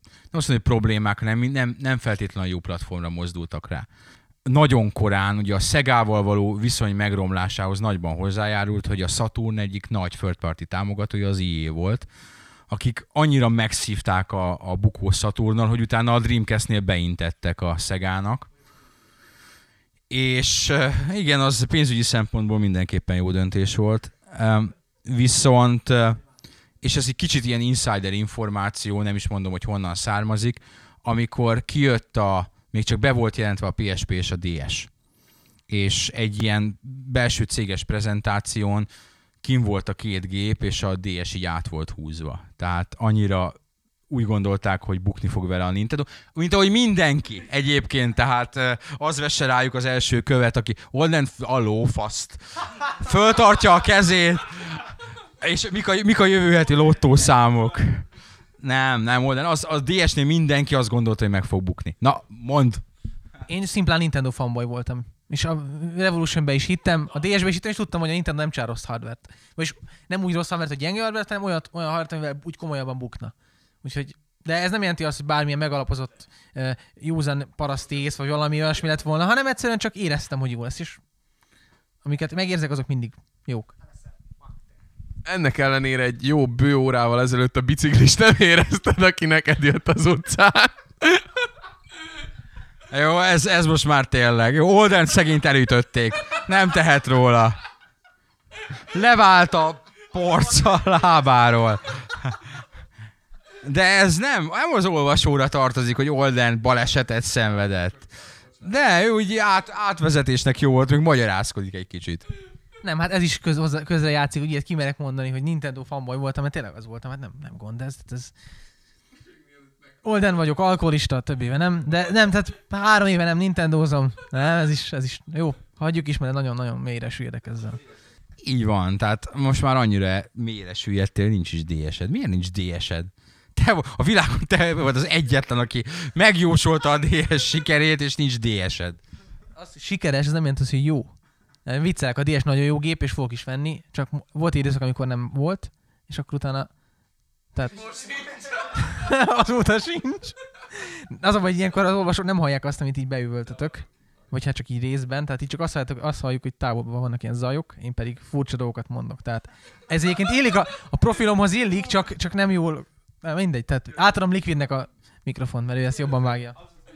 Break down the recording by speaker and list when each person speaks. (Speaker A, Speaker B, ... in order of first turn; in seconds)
Speaker A: 0.3-3.9, 4.5-12.1, 12.7-18.5, 20.1-26.2, 26.8-34.9, 35.7-38.9, 39.4-43.6, 44.1-58.1, 58.6-62.8, 92.9-97.6, 98.9-102.4, 103.6-112.3, 128.4-139.0
Speaker B: 63.5-81.0, 82.0-83.8, 112.8-118.3, 120.0-127.8, 139.6-141.1, 141.7-146.7, 147.5-148.1, 148.6-166.6
Speaker C: 85.2-91.2